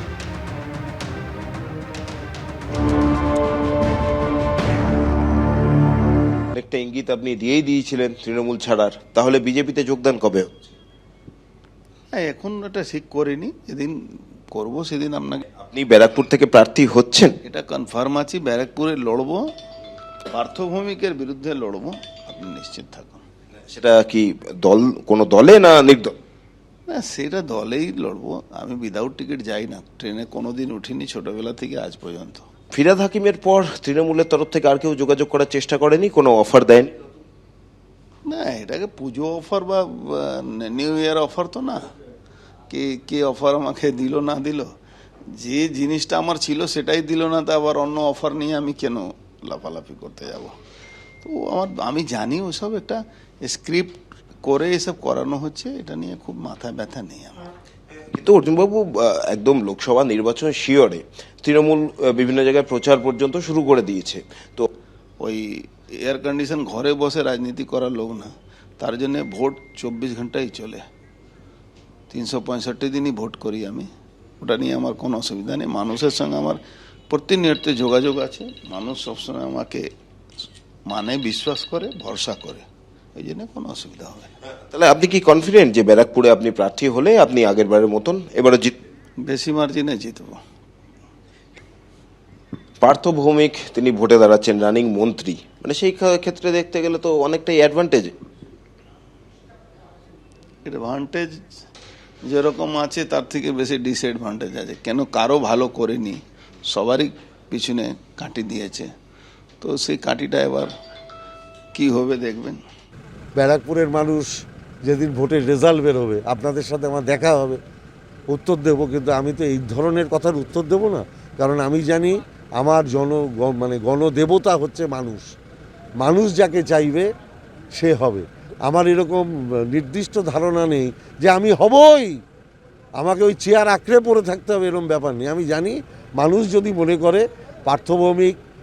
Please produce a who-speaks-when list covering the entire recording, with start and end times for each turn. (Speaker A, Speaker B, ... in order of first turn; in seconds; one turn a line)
Speaker A: 6.5-10.5
Speaker B: 12.1-14.0
Speaker B: 14.5-15.4
Speaker A: 15.6-17.4
Speaker B: 17.4-19.4
Speaker B: 20.3-23.2
Speaker A: 23.7-26.1
Speaker B: 26.9-32.5
Speaker A: 32.7-36.9
Speaker B: 38.3-41.8
Speaker B: 42.7-44.7
Speaker B: 45.3-50.5
Speaker B: 51.2-57.5
Speaker A: 58.1-64.7
Speaker B: 65.2-70.8
Speaker B: 72.1-73.9
Speaker B: 74.4-76.6
Speaker B: 77.1-79.8
Speaker B: 80.9-82.6
Speaker B: 83.2-84.3
Speaker A: 84.7-88.7
Speaker B: 89.2-90.4
Speaker A: 92.8-98.1
Speaker B: 100.6-101.4
Speaker B: 102.2-108.9
Speaker B: 109.6-110.7
Speaker B: 111.7-112.6
Speaker C: 113.3-117.6
Speaker C: 118.3-125.3
Speaker C: 126.0-127.1
Speaker C: 127.7-132.2
Speaker C: 133.0-138.3